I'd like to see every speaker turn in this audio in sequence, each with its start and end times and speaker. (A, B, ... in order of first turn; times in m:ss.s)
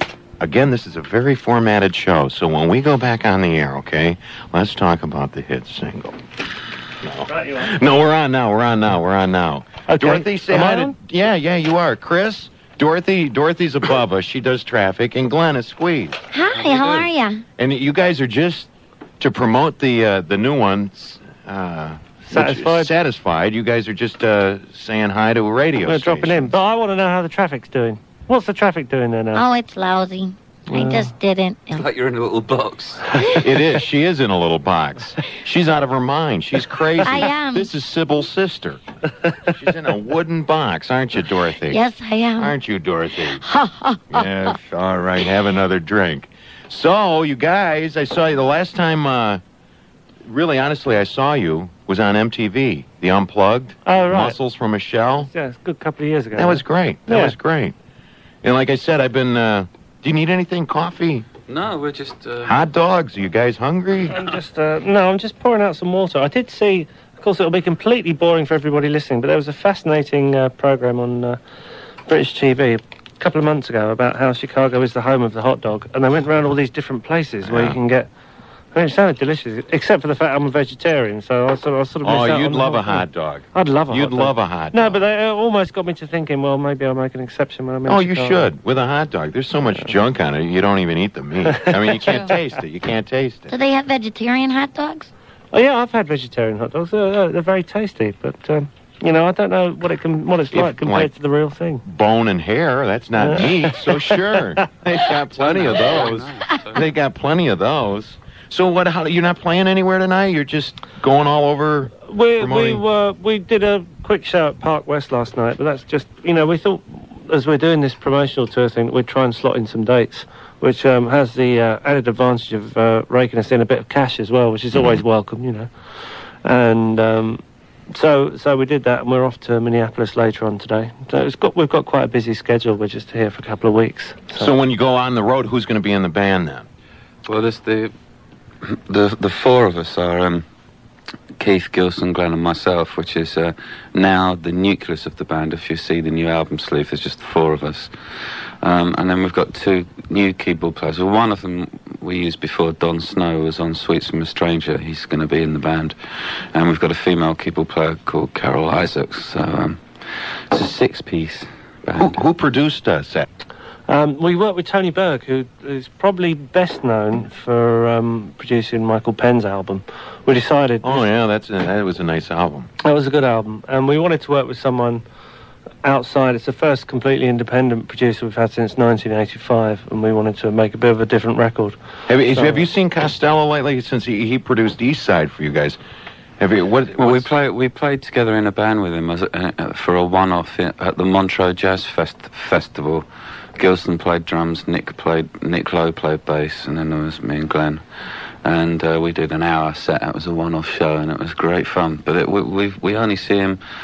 0:00.4-0:06.2 A
0:07.0-0:16.2 A
0:07.3-0:07.7 B
0:09.9-0:11.0 B
0:16.3-0:17.4 C
0:16.6-0:17.1 D
0:17.6-0:18.7 A
0:19.2-0:26.6 A
0:22.2-0:22.9 B
0:25.8-0:29.4 B
0:29.3-0:31.8 C
0:30.7-0:31.1 B
0:31.7-0:33.2 D
0:33.3-0:38.8 A
0:37.0-0:37.7 C
0:39.4-0:41.8 A
0:41.7-0:42.5 C
0:42.4-0:43.4 A
0:43.3-0:44.5 C
0:44.1-0:49.4 A
0:50.2-0:55.3 A
0:53.8-0:54.4 B
0:55.2-0:57.3 B
0:56.4-0:57.8 A
0:58.4-1:01.3 A
1:01.5-1:02.6 D
1:02.4-1:04.2 A
1:04.1-1:11.4 B
1:12.1-1:18.1 B
1:17.4-1:17.8 A
1:18.7-1:28.4 B
1:22.0-1:25.0 A
1:27.9-1:33.5 A
1:32.0-1:32.3 C
1:33.5-1:35.1 C
1:35.5-1:41.8 B
1:40.5-1:41.1 A
1:41.8-1:52.8 A
1:43.2-1:44.3 B
1:45.4-1:46.9 D
1:52.1-2:05.7 B
2:06.4-2:14.5 B
2:14.4-2:16.7 A
2:17.3-2:17.9 D
2:18.6-2:20.4 D
2:21.4-2:42.2 D
2:41.9-2:43.3 A
2:43.9-2:51.0 B
2:50.8-2:52.7 A
2:52.8-2:55.0 B
2:55.8-3:01.8 B
3:02.1-3:05.8 A
3:02.3-3:02.6 B
3:06.4-3:07.3 A
3:07.0-3:13.1 D
3:13.6-3:17.8 D
3:18.4-3:23.6 D